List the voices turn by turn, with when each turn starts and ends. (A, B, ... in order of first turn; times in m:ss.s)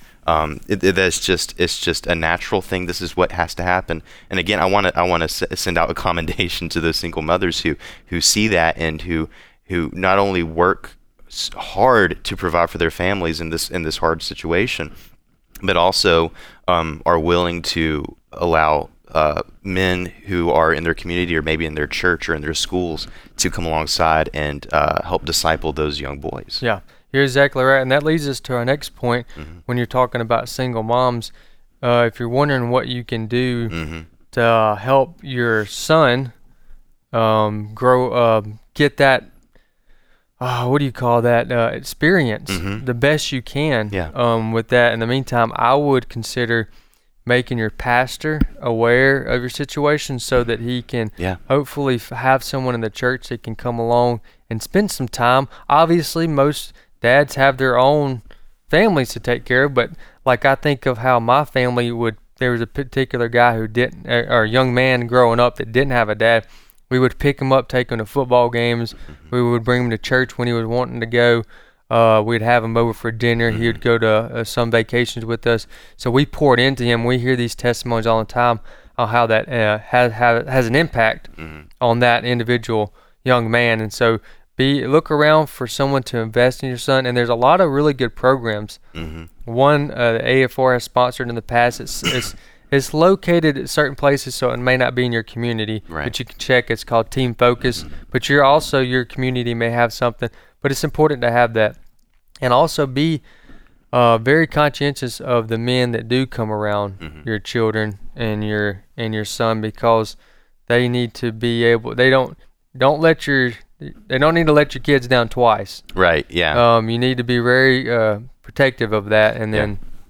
0:00.2-0:14.9 A
0:15.6-0:26.6 A
0:26.6-0:33.7 B
0:33.7-0:34.1 A
0:34.3-0:36.3 B
0:37.1-0:39.3 B
0:40.4-0:46.7 B
0:42.5-0:42.8 A
0:47.2-1:28.8 B
1:13.5-1:13.8 A
1:21.4-1:21.6 A
1:28.9-1:29.3 A
1:29.4-1:41.8 B
1:35.9-1:36.1 A
1:42.4-1:43.2 B
1:43.9-1:50.2 B
1:50.7-1:55.8 B
1:55.9-1:56.6 A
1:56.5-1:59.8 B